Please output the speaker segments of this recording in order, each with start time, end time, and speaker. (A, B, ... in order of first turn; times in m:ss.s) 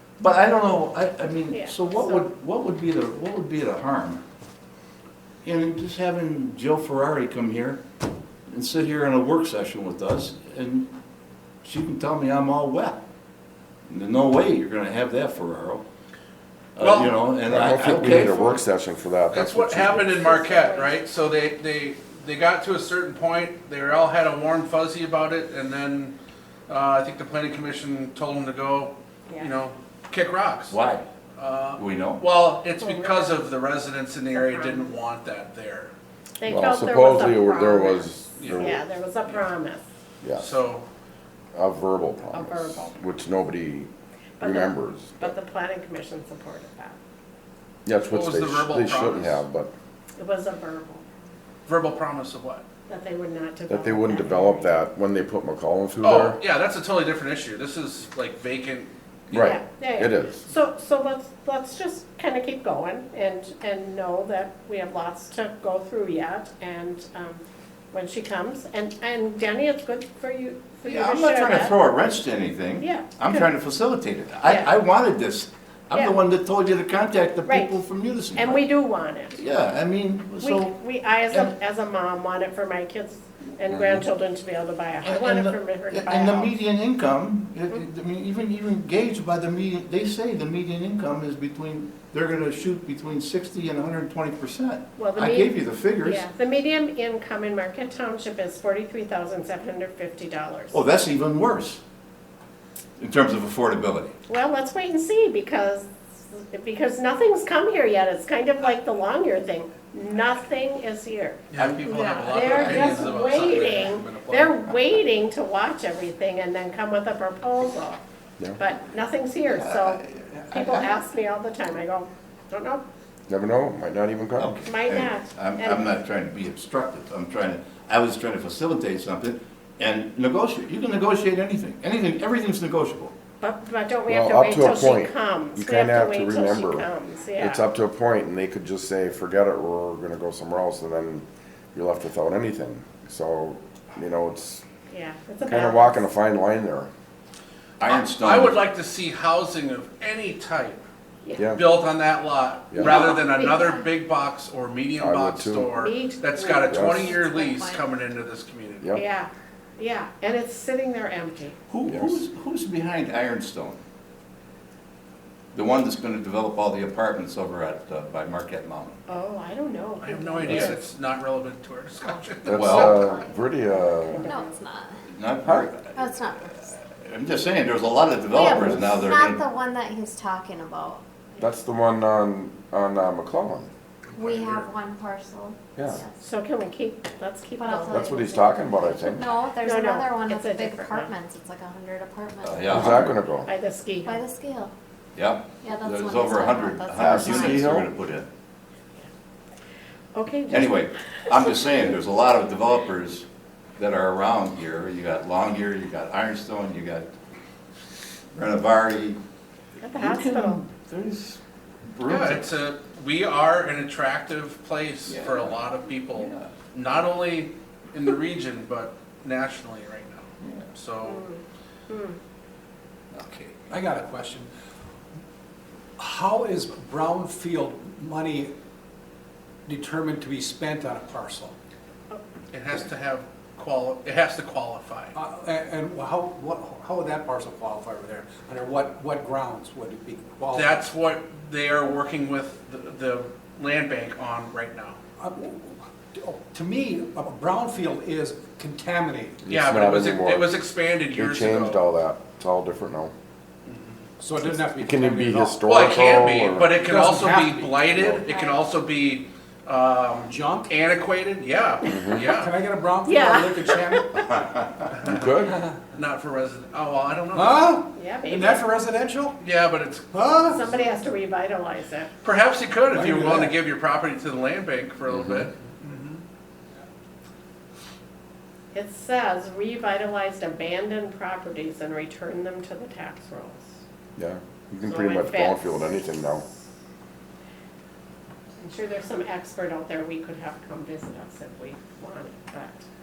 0:00.2-0:04.2 A
0:01.5-0:02.3 B
0:05.4-0:07.8 A
0:08.5-0:10.9 A
0:11.6-0:13.0 A
0:13.9-0:15.8 A
0:16.8-0:18.6 A
0:16.8-0:17.2 C
0:17.5-0:20.2 D
0:19.3-0:26.2 C
0:20.0-0:21.0 B
0:26.7-0:30.8 C
0:30.7-0:31.1 A
0:31.4-0:35.9 C
0:31.8-0:32.2 A
0:32.8-0:33.5 B
0:34.3-0:34.9 B
0:36.4-0:39.8 B
0:36.4-0:38.8 D
0:38.4-0:39.5 C
0:40.4-0:40.8 C
0:41.5-0:43.9 D
0:42.3-0:43.0 B
0:44.4-0:47.0 B
0:44.4-0:45.3 D
0:47.8-0:49.7 D
0:48.1-0:49.4 C
0:50.2-0:51.0 B
0:51.6-0:52.6 C
0:52.9-0:54.8 B
0:53.7-0:56.4 D
0:56.0-0:59.5 C
0:59.3-1:00.4 D
0:59.4-1:11.8 B
1:10.8-1:18.6 A
1:12.8-1:13.4 B
1:14.4-1:14.7 B
1:17.4-1:17.8 B
1:18.3-1:19.4 B
1:19.3-1:20.8 A
1:20.4-1:26.6 B
1:25.0-1:36.2 A
1:35.0-1:40.8 B
1:40.7-1:41.8 A
1:43.0-1:44.1 A
1:44.3-1:58.0 B
1:51.5-1:54.5 C
1:52.4-1:53.0 A
1:58.6-2:02.8 B
1:59.5-2:00.9 A
2:03.3-2:04.6 D
2:04.4-2:13.1 A
2:04.6-2:05.9 B
2:13.4-2:17.6 B
2:14.1-2:24.6 D
2:24.9-2:26.0 B
2:25.4-2:26.9 D
2:27.8-2:28.6 A
2:27.8-2:30.8 C
2:31.2-2:31.5 B
2:31.4-2:31.6 D
2:31.4-2:39.0 C
2:32.7-2:33.0 D
2:32.8-2:33.6 B
2:35.0-2:35.7 D
2:35.7-2:37.1 B
2:36.7-2:37.1 D
2:37.0-2:37.8 E
2:38.9-2:41.6 B
2:41.7-2:43.8 A
2:41.9-2:42.2 D
2:45.5-2:49.0 A
2:49.1-2:50.9 B
2:50.0-2:53.1 C
2:52.4-2:54.3 D
2:52.5-2:53.0 A
2:53.8-2:54.5 B
2:54.2-2:54.9 E
2:55.1-2:59.4 A
2:55.9-2:56.6 E
2:58.3-3:01.0 E
2:58.5-2:58.9 D
3:01.4-3:03.7 D
3:04.2-3:06.1 E
3:06.2-3:08.3 B
3:07.6-3:12.8 E
3:07.9-3:09.2 D
3:09.6-3:11.1 B
3:12.4-3:13.2 A
3:12.6-3:13.5 D
3:13.4-3:14.2 B
3:14.0-3:14.7 E
3:15.1-3:18.3 A
3:15.6-3:17.6 E
3:17.0-3:17.9 D
3:20.1-3:21.6 B
3:20.5-3:23.2 A
3:23.8-3:27.1 A
3:28.3-3:29.2 A
3:29.8-3:30.6 B
3:29.8-3:31.4 A
3:31.9-3:32.5 A
3:32.0-3:41.2 C
3:35.1-3:36.5 A
3:40.4-3:40.7 A
3:41.0-3:42.2 B
3:43.1-3:43.7 A
3:43.7-3:44.5 F
3:46.0-3:48.5 F
3:49.7-3:51.5 F
3:52.5-3:55.1 C
3:55.1-4:00.8 F
4:00.5-4:05.0 C
4:05.2-4:09.4 F
4:09.4-4:10.5 D
4:09.5-4:11.8 C
4:11.1-4:13.1 D
4:13.7-4:14.0 C
4:14.2-4:15.7 F
4:14.4-4:16.8 D
4:15.6-4:22.5 C
4:16.7-4:17.9 F
4:18.1-4:18.6 B
4:20.3-4:20.7 F
4:21.8-4:22.3 D
4:22.2-4:24.4 F
4:23.0-4:24.2 B
4:24.9-4:27.8 C
4:25.0-4:25.6 D
4:27.3-4:29.4 F
4:27.9-4:28.6 B
4:29.4-4:30.1 C
4:30.1-4:30.7 F
4:30.5-4:32.1 B
4:32.2-4:36.2 C
4:32.9-4:33.5 F
4:35.1-4:35.5 D
4:38.7-4:43.7 B
4:44.2-4:46.4 D
4:44.8-4:46.3 B
4:48.6-4:52.8 B